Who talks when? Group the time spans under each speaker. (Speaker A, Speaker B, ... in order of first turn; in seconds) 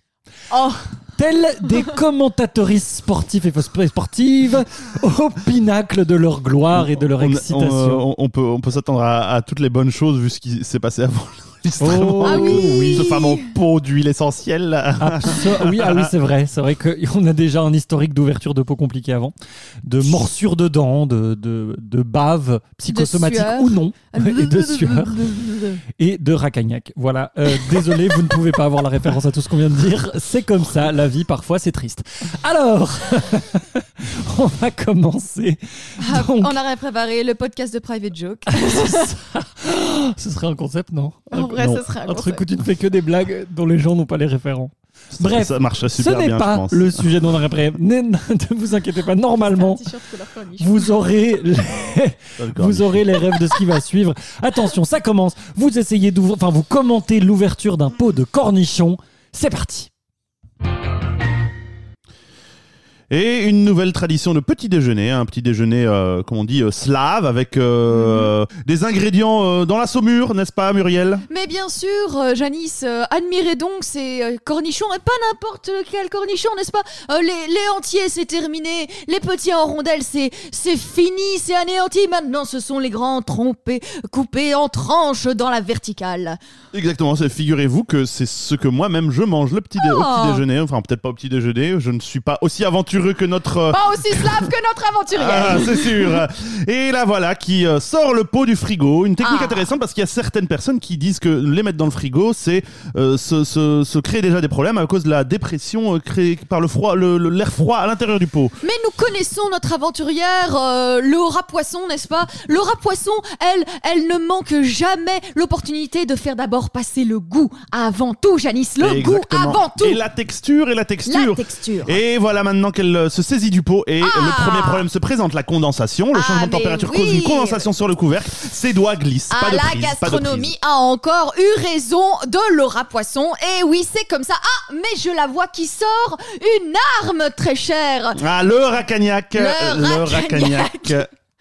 Speaker A: 0.5-1.0, 12.2-13.6, 22.9-25.8, 27.5-28.4, 36.0-39.2, 41.3-42.4, 49.4-51.0, 67.9-68.3, 71.3-86.4, 89.8-90.4, 93.7-96.2, 99.2-99.7, 108.6-120.0, 121.1-122.0, 124.0-124.9, 126.1-127.7, 129.3-138.2, 139.4-141.1
Speaker B: 1.1-8.1, 11.8-13.2, 15.0-36.6, 38.5-49.9, 50.6-59.9
Speaker C: 6.7-16.1, 41.4-41.9, 45.1-47.3, 52.4-53.3, 63.1-71.3, 86.7-94.5, 95.2-108.6, 118.8-130.5, 138.2-141.1